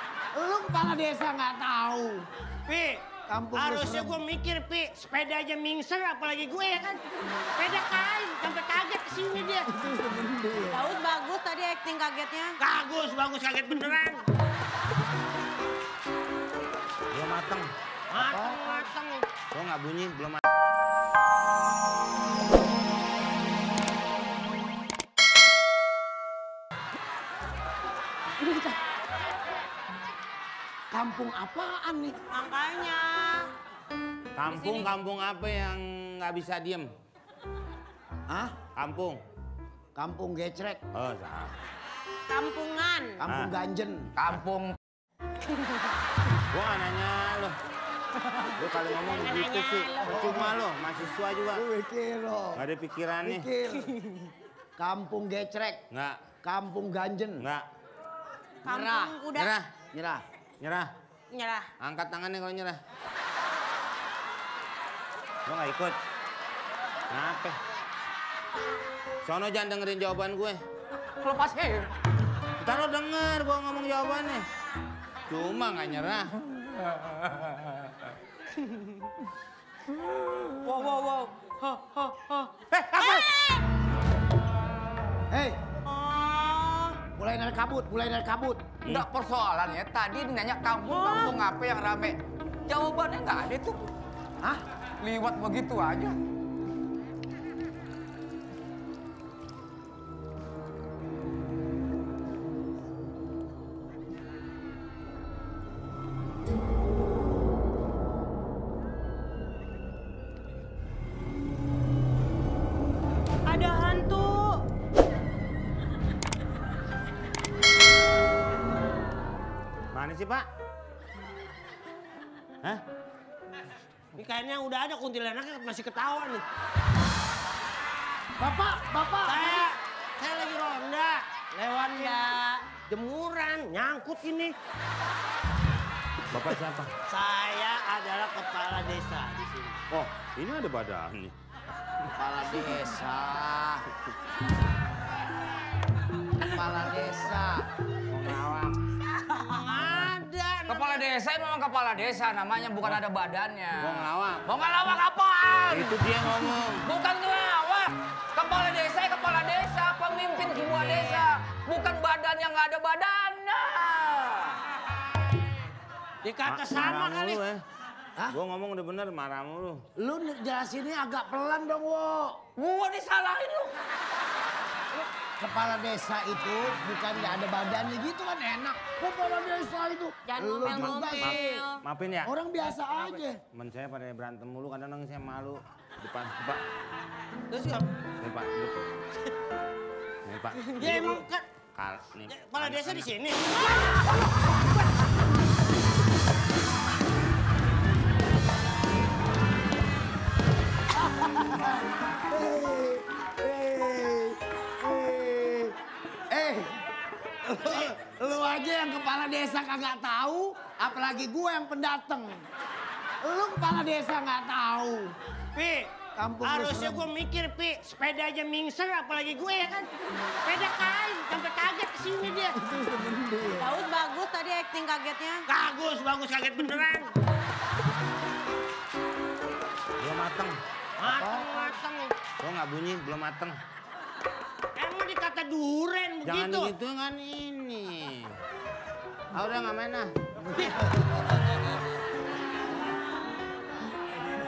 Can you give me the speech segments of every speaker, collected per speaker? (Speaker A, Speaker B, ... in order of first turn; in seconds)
Speaker A: 0.3-2.2, 3.3-4.2, 9.7-10.9, 18.1-18.7, 30.9-32.2, 38.3-38.6, 39.9-40.8, 43.2-44.1, 50.1-50.6, 51.5-52.6, 53.2-54.0, 54.8-55.8, 56.4-57.5, 58.6-59.2, 59.9-60.2, 85.3-85.6, 87.1-88.6, 128.4-129.6, 146.8-147.6, 169.9-172.4, 175.4-181.6, 182.2-183.4, 201.2-205.8, 206.3-206.8, 207.4-212.4, 213.2-215.1, 216.2-217.1, 222.6-223.8, 231.0-231.7
Speaker B: 2.6-7.0, 7.5-9.7, 12.6-14.2, 18.1-19.2, 86.2-86.5, 124.1-126.4, 129.2-134.6, 137.1-139.8, 149.2-151.0, 166.2-167.4, 187.5-187.9, 190.6-191.4, 192.3-193.4, 215.5-219.9, 220.4-222.6, 225.4-227.1, 231.0-232.1, 234.8-236.7, 240.6-240.9
Speaker C: 10.8-12.5, 32.3-33.5, 42.3-43.2, 49.1-50.2, 58.7-59.5, 61.3-61.7, 90.9-91.3, 113.5-114.6, 180.3-181.8, 223.8-225.4
Speaker D: 17.1-17.7, 19.5-20.4, 34.3-36.9, 38.7-39.2, 40.9-41.5, 43.3-43.5, 46.5-47.6, 48.4-51.6, 52.5-53.5, 55.9-56.3, 57.4-57.7, 59.3-59.7, 60.6-60.9, 61.8-62.8, 65.5-66.0, 67.1-67.6, 69.2-70.6, 72.6-74.5, 75.3-76.3, 82.7-83.3, 119.9-120.5, 136.3-136.9, 139.9-141.3, 148.1-148.8, 149.8-150.1, 153.8-154.4, 155.7-156.9, 166.4-167.6, 168.3-169.8, 180.6-182.3, 183.5-186.6, 188.2-188.9, 190.2-193.1, 230.0-230.6, 232.4-233.6, 236.2-238.4, 239.3-240.1
Speaker E: 44.1-44.8, 71.2-71.9, 80.8-81.2, 88.9-93.9, 95.0-96.2, 142.2-143.8, 146.6-147.1, 150.7-156.0, 156.8-164.6, 172.6-173.7